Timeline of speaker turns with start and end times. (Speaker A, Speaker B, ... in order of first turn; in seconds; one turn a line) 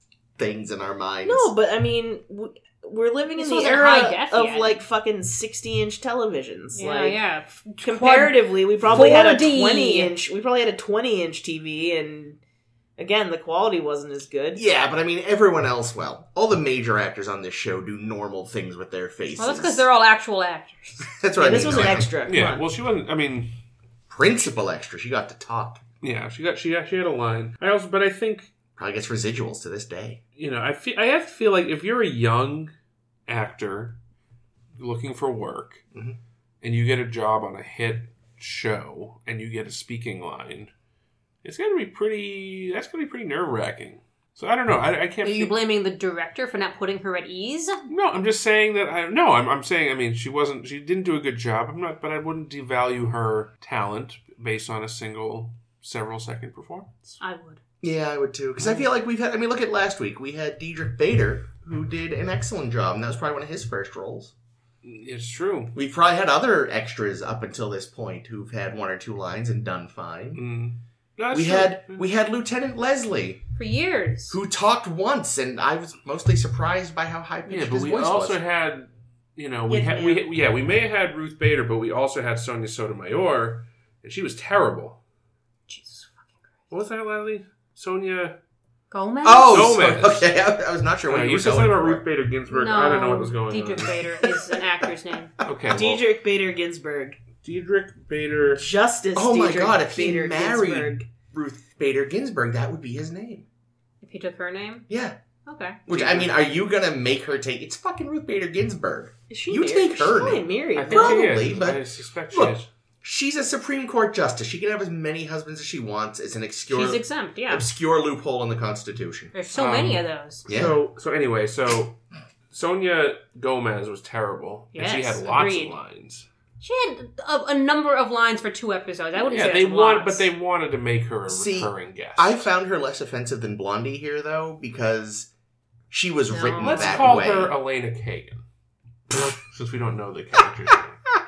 Speaker A: 0.4-1.5
Speaker B: 1.2-7.2
Speaker C: 3.3-4.8
Speaker C: 6.7-10.1
Speaker B: 7.8-12.4
Speaker B: 13.0-14.6
Speaker A: 14.5-19.8
Speaker C: 19.4-21.1
Speaker A: 21.1-22.1
Speaker B: 21.4-22.6
Speaker D: 22.2-23.6
Speaker A: 24.1-25.8
Speaker D: 26.0-28.5
Speaker A: 28.8-30.2
Speaker D: 30.4-32.7
Speaker D: 33.3-34.0
Speaker D: 34.8-35.8
Speaker D: 36.6-40.7
Speaker D: 41.4-45.5
Speaker C: 45.2-47.8
Speaker D: 47.9-57.2
Speaker C: 57.2-57.6
Speaker A: 57.8-64.3
Speaker D: 64.8-65.7
Speaker A: 65.7-70.4
Speaker D: 70.3-72.0
Speaker A: 71.3-73.4
Speaker C: 73.6-74.3
Speaker A: 74.3-78.4
Speaker D: 77.5-85.0
Speaker B: 79.7-80.2
Speaker C: 85.7-86.3
Speaker D: 86.7-88.3
Speaker C: 88.9-89.8
Speaker A: 89.2-92.0
Speaker D: 89.5-90.3
Speaker D: 91.1-94.0
Speaker C: 92.5-95.3
Speaker A: 94.2-94.6
Speaker D: 95.4-96.0
Speaker B: 95.7-97.2
Speaker D: 97.4-98.6
Speaker B: 98.5-101.0
Speaker A: 99.2-103.4
Speaker C: 104.0-104.8
Speaker A: 104.9-105.2
Speaker C: 105.5-105.8
Speaker A: 105.9-119.3
Speaker D: 105.9-106.3
Speaker B: 109.3-111.4
Speaker D: 110.7-112.7
Speaker C: 116.7-117.7
Speaker C: 119.3-120.4
Speaker D: 119.5-122.0
Speaker A: 120.5-120.8
Speaker D: 122.5-126.3
Speaker C: 124.7-125.8
Speaker C: 126.6-130.3
Speaker D: 129.2-132.5
Speaker A: 131.3-135.3
Speaker A: 135.9-137.5
Speaker C: 136.3-137.3
Speaker D: 136.6-138.4
Speaker D: 139.1-141.0